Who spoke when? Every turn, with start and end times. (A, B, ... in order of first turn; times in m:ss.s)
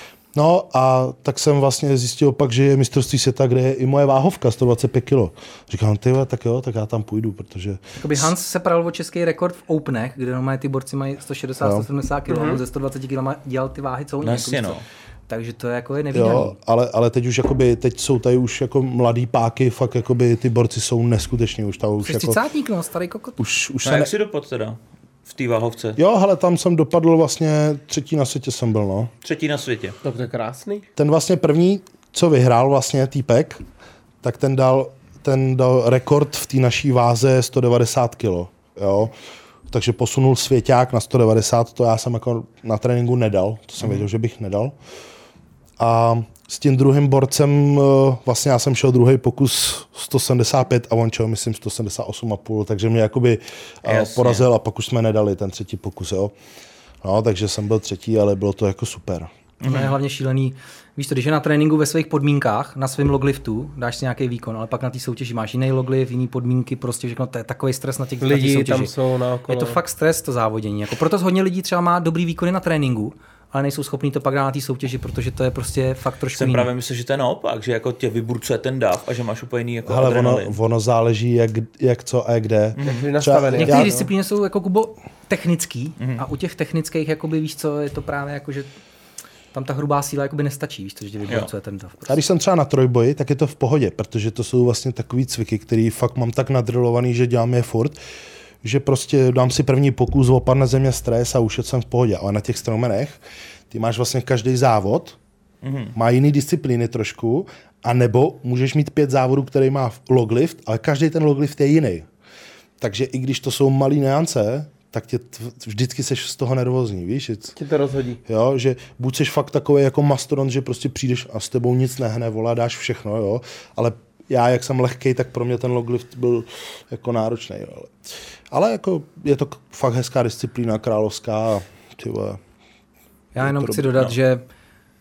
0:00.3-0:08.3 A
0:08.0-0:16.5 B
0:11.6-0:11.9 A
0:12.3-0:12.6 C
0:14.2-0:14.8 D
0:16.1-0:22.4 A
0:22.0-0:23.4 B
0:23.4-0:24.1 A
0:23.8-0:26.0 D
0:26.0-0:29.1 A
0:29.2-0:30.0 D
0:30.0-0:30.8 C
0:31.0-0:33.6 A
0:34.2-0:39.1 A
0:39.7-0:44.7 A
0:45.8-0:56.3 A
0:53.8-0:54.4 D
0:57.0-0:59.3 A
0:59.6-0:59.9 D
0:59.6-1:08.9 B
1:08.2-1:09.8 C
1:09.5-1:16.7 B
1:16.3-1:20.6 D
1:19.8-1:24.0 A
1:22.8-1:23.1 D
1:22.8-1:24.1 C
1:23.5-1:28.7 B
1:29.5-1:32.2 B
1:32.1-1:38.0 A
1:38.6-1:43.2 A
1:43.7-1:45.2 A
1:45.6-1:45.9 D
1:45.9-1:52.1 A
1:52.8-1:57.5 A
1:57.6-1:58.2 C
1:58.2-2:08.0 A
2:08.5-2:12.4 A
2:13.3-2:14.4 B
2:13.4-2:14.1 A